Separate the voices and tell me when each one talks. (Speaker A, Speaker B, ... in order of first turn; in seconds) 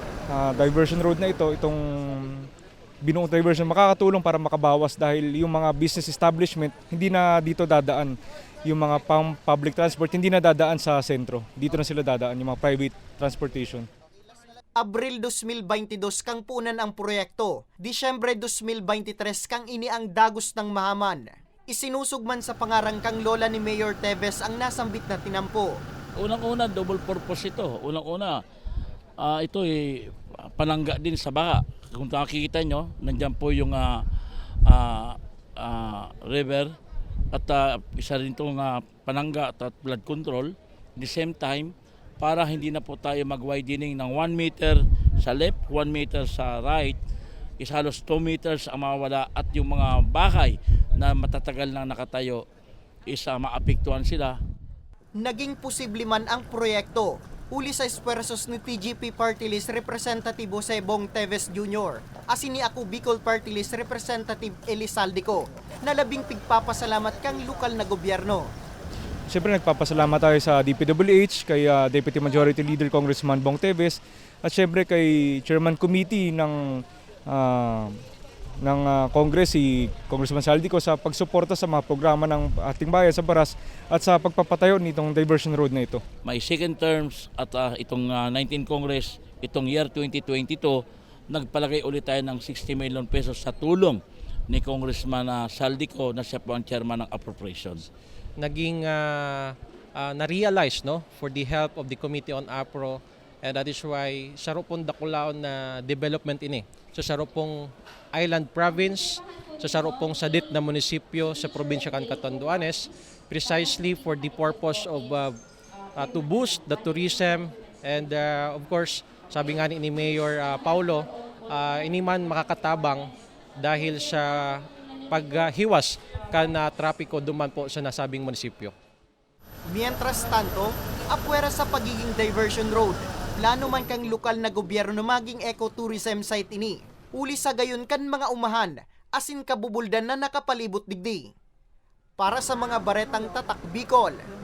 Speaker A: 0.3-2.5, 3.0-8.2, 8.7-13.9, 69.3-78.0, 78.6-86.0
Speaker B: 14.8-25.8, 55.2-68.5, 129.7-141.3, 142.2-144.2
Speaker C: 26.2-28.4, 29.2-34.0, 34.7-36.7, 37.3-47.0, 47.6-52.4, 53.1-54.4, 86.2-90.8, 91.3-94.0, 94.5-97.9
Speaker D: 98.4-115.4, 116.0-128.8